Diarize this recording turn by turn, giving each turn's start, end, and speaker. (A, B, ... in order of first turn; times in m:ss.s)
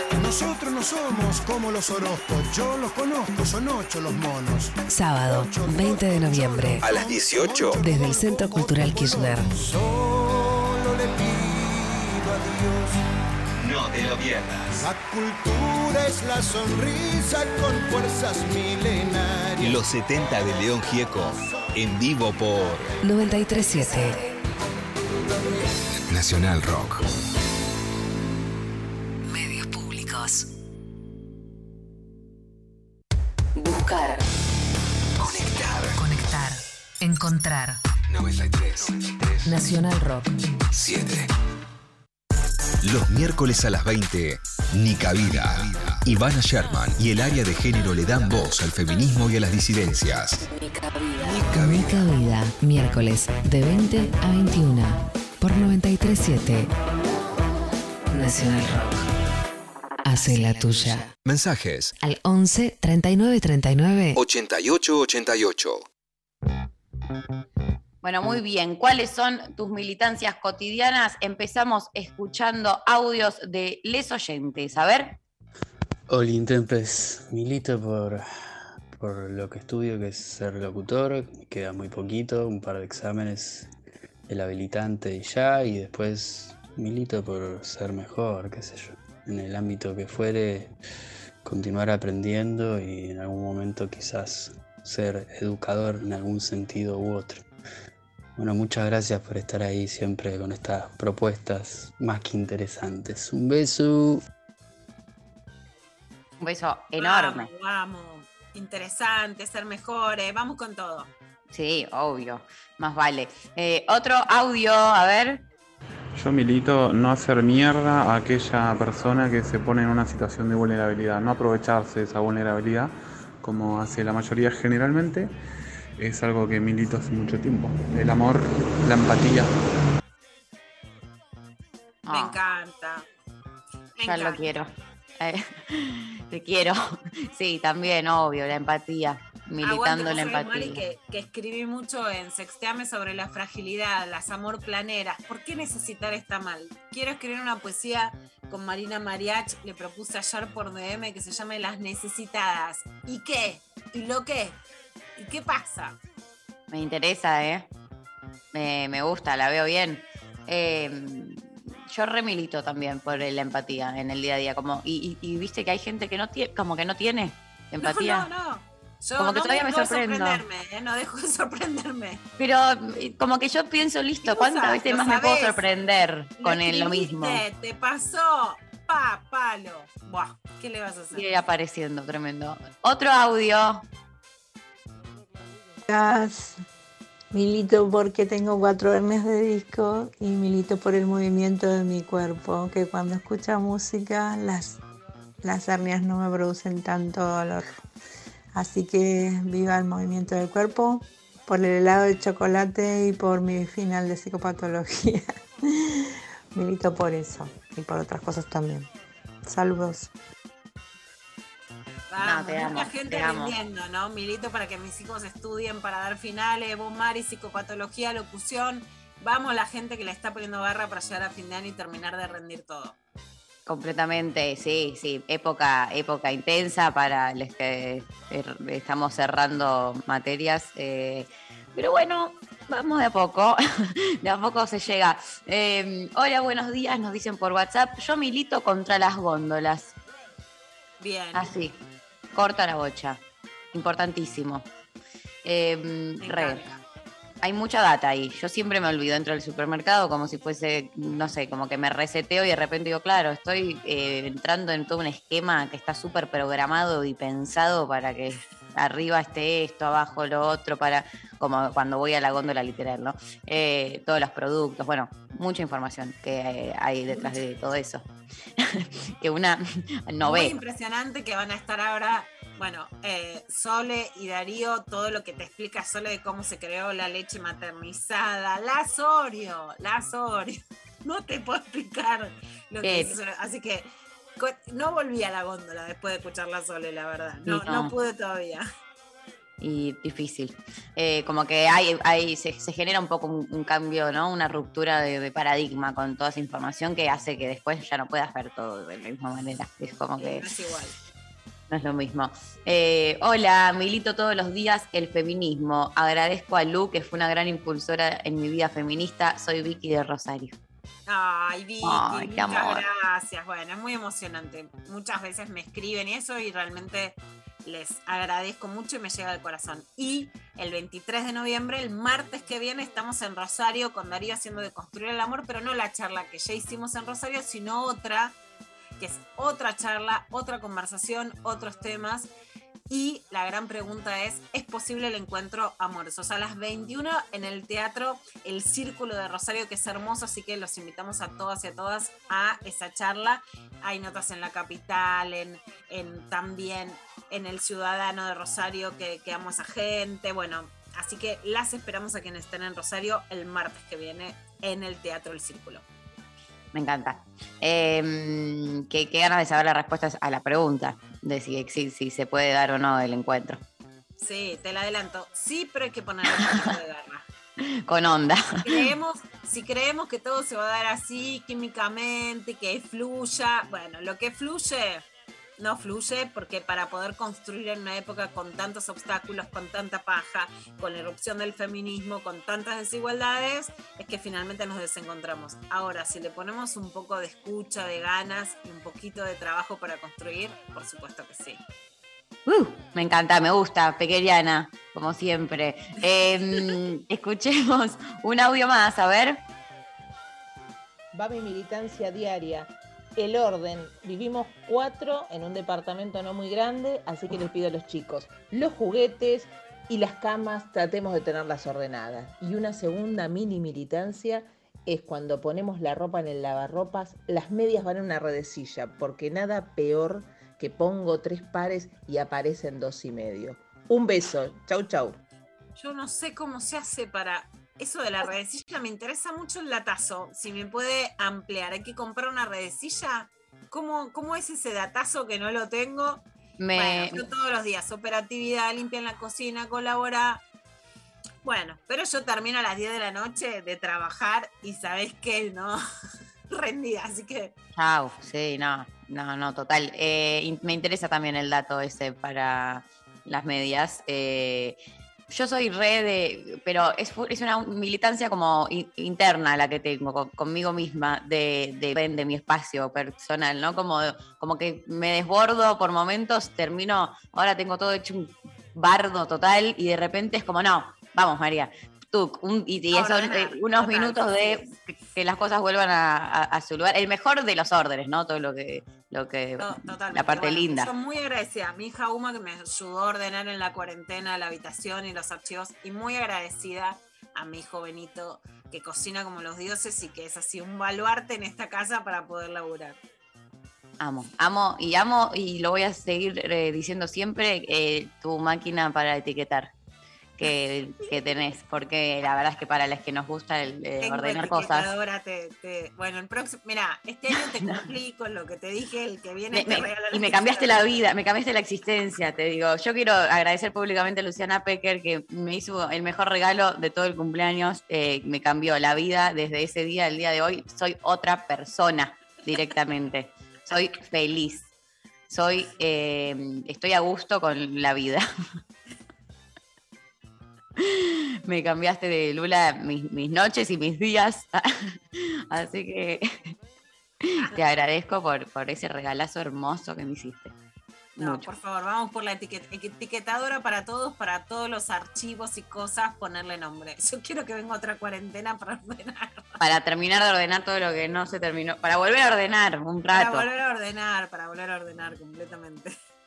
0:00.2-0:13.0 A
0:04.9-0:06.8 B
0:06.8-0:07.8 C
0:07.8-0:09.5 B
0:13.6-0:14.9 C
0:14.8-0:19.8 A
0:19.6-0:22.9 C
0:23.0-0:24.3 B
0:26.1-0:27.0 C
0:29.3-0:30.5 B
0:33.6-0:34.2 B
0:35.2-0:36.0 C
0:36.0-0:37.8 B
0:38.1-0:39.6 C
0:39.4-0:40.6 B
0:40.7-0:41.3 C
0:42.8-0:50.4 C
0:50.5-0:56.7 B
0:51.4-0:52.0 C
0:58.1-0:59.0 B
1:00.0-1:01.1 B
1:01.2-1:01.9 C
1:02.0-1:04.2 B
1:04.2-1:05.9 C
1:08.0-1:15.2 D
1:16.1-1:18.2 E
1:18.9-1:23.7 E
1:24.3-1:30.7 E
1:31.4-1:37.5 E
1:38.4-1:44.2 E
1:46.4-1:47.5 D
1:47.0-1:51.1 F
1:51.5-1:55.4 D
1:56.2-2:05.3 G
2:06.0-2:09.6 G
2:12.1-2:12.4 D
2:12.1-2:13.0 F
2:14.0-2:14.4 F
2:14.0-2:20.8 D
2:19.6-2:34.6 F
2:35.2-2:36.0 F
2:36.7-2:37.7 D
2:38.5-2:48.3 D
2:47.8-2:52.2 F
2:49.2-2:50.4 D
2:52.4-2:57.4 D
2:54.2-2:55.6 F
2:56.4-3:01.3 F
3:01.1-3:03.8 D
3:05.9-3:06.6 H
3:07.3-3:14.8 H
3:15.4-3:17.8 H
3:18.5-3:25.4 H
3:26.5-3:28.9 H
3:29.4-3:30.1 H
3:32.1-3:43.0 F
3:32.2-3:33.5 D
3:43.7-3:59.9 D
4:01.0-4:01.5 F
4:01.3-4:01.8 D
4:02.3-4:03.2 D
4:03.7-4:04.7 D
4:05.4-4:06.6 D
4:06.2-4:06.8 F
4:07.4-4:28.0 D
4:27.1-4:27.4 F
4:28.6-4:30.5 D
4:30.2-4:48.6 F
4:42.8-4:43.2 D
4:47.5-4:47.9 D
4:49.6-5:00.5 D
5:00.2-5:01.0 F
5:01.7-5:10.6 D
5:11.1-5:28.4 F
5:11.8-5:12.8 D
5:29.0-5:32.3 F
5:32.9-5:55.8 F
5:56.7-6:03.6 D
6:04.2-6:07.2 F
6:07.6-6:08.8 D
6:08.6-6:15.0 F
6:15.6-6:31.6 F
6:32.5-6:39.4 D
6:41.1-7:05.2 I
7:05.8-7:16.2 F
7:16.6-7:17.2 D
7:16.8-7:20.4 F
7:21.4-7:25.8 F
7:26.5-7:27.5 F
7:27.8-7:34.8 D
7:35.3-8:00.9 D
7:52.9-7:54.7 F
7:59.6-8:13.0 F
8:14.0-8:19.7 D
8:20.4-8:24.9 D
8:24.0-8:30.8 F
8:29.5-8:44.7 D
8:45.3-8:48.2 D
8:50.8-8:56.4 D
8:57.2-9:00.5 D
9:01.2-9:01.5 D
9:01.2-9:09.5 F
9:09.6-9:13.5 D
9:13.1-9:15.9 F